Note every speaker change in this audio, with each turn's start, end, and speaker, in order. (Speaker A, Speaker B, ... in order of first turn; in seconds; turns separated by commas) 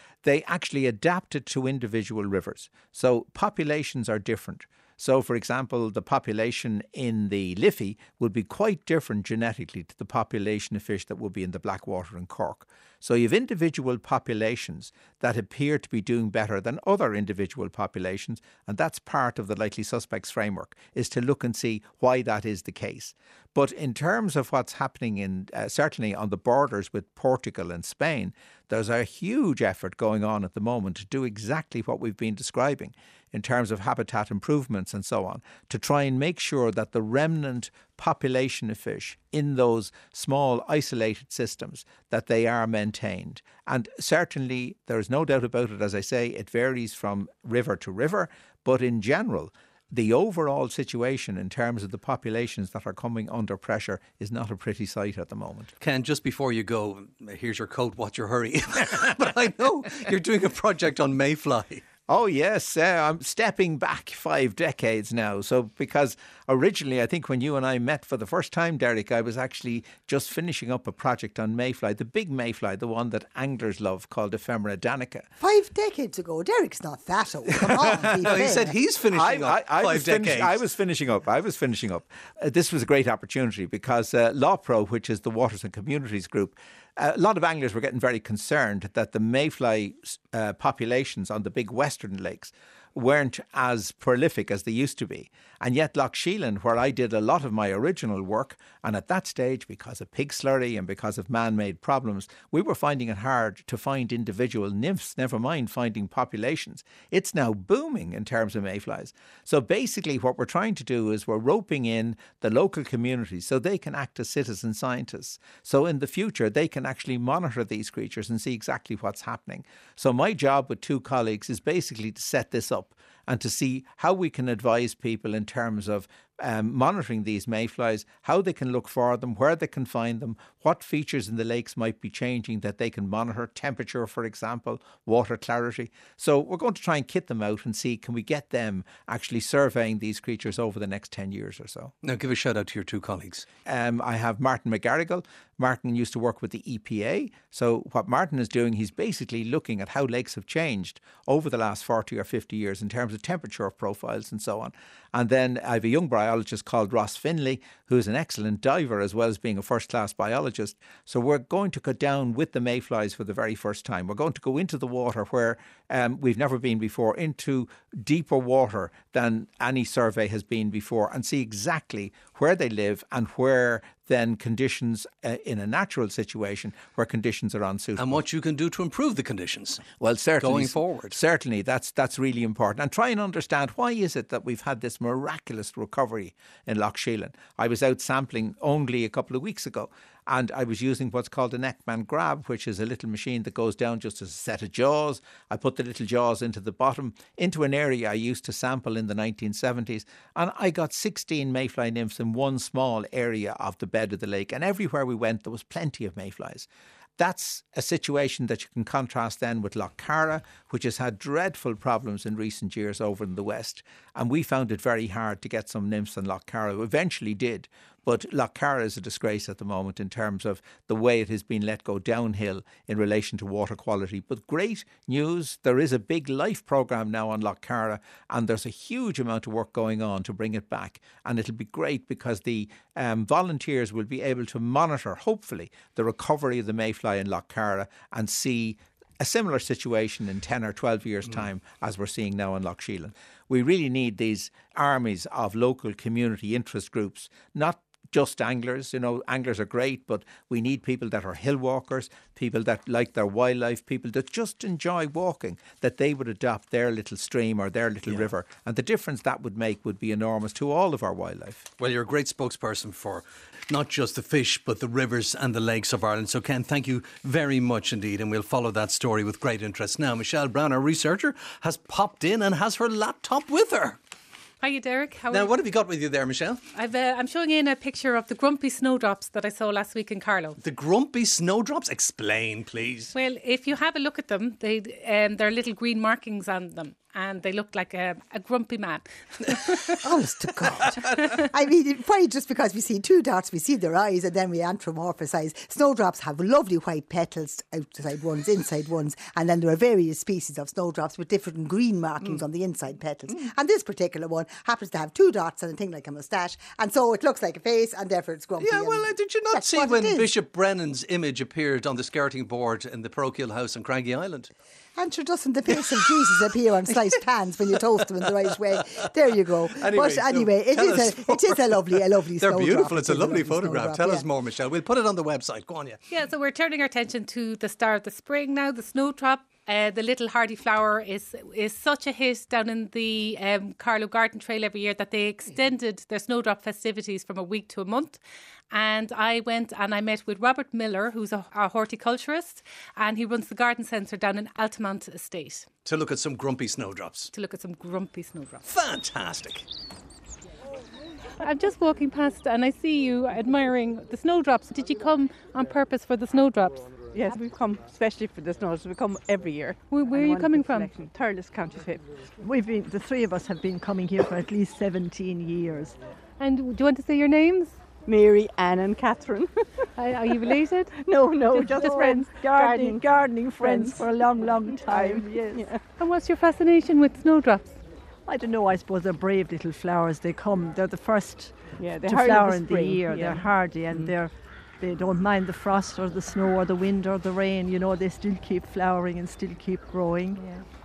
Speaker A: 0.2-55.7, Speaker B: 55.8-61.8, Speaker A: 62.1-75.3, Speaker C: 75.4-78.8, Speaker B: 78.2-80.6, Speaker A: 79.1-141.9, Speaker B: 142.0-143.4, Speaker A: 143.7-178.2, Speaker B: 178.0-179.8, Speaker A: 180.0-206.7, Speaker B: 180.4-181.2, Speaker A: 207.2-261.7, Speaker B: 261.8-274.0, Speaker D: 274.6-275.5, Speaker B: 275.3-276.6, Speaker D: 276.7-280.6, Speaker B: 280.6-283.1, Speaker D: 283.1-290.0, Speaker C: 290.0-310.3, Speaker B: 308.6-314.5, Speaker C: 315.0-324.2, Speaker B: 315.7-317.1, Speaker B: 318.3-326.0, Speaker D: 326.1-338.2, Speaker D: 338.7-345.7, Speaker B: 345.9-347.3, Speaker D: 347.3-348.7, Speaker B: 348.6-349.7, Speaker D: 351.4-356.9, Speaker E: 357.1-362.1, Speaker D: 359.9-360.9, Speaker F: 362.4-366.0, Speaker D: 366.4-367.8, Speaker E: 368.1-370.4, Speaker D: 370.0-370.9, Speaker E: 370.9-375.8, Speaker D: 371.5-372.5, Speaker F: 371.6-375.7, Speaker D: 376.0-377.8, Speaker F: 378.2-390.6, Speaker E: 381.8-384.1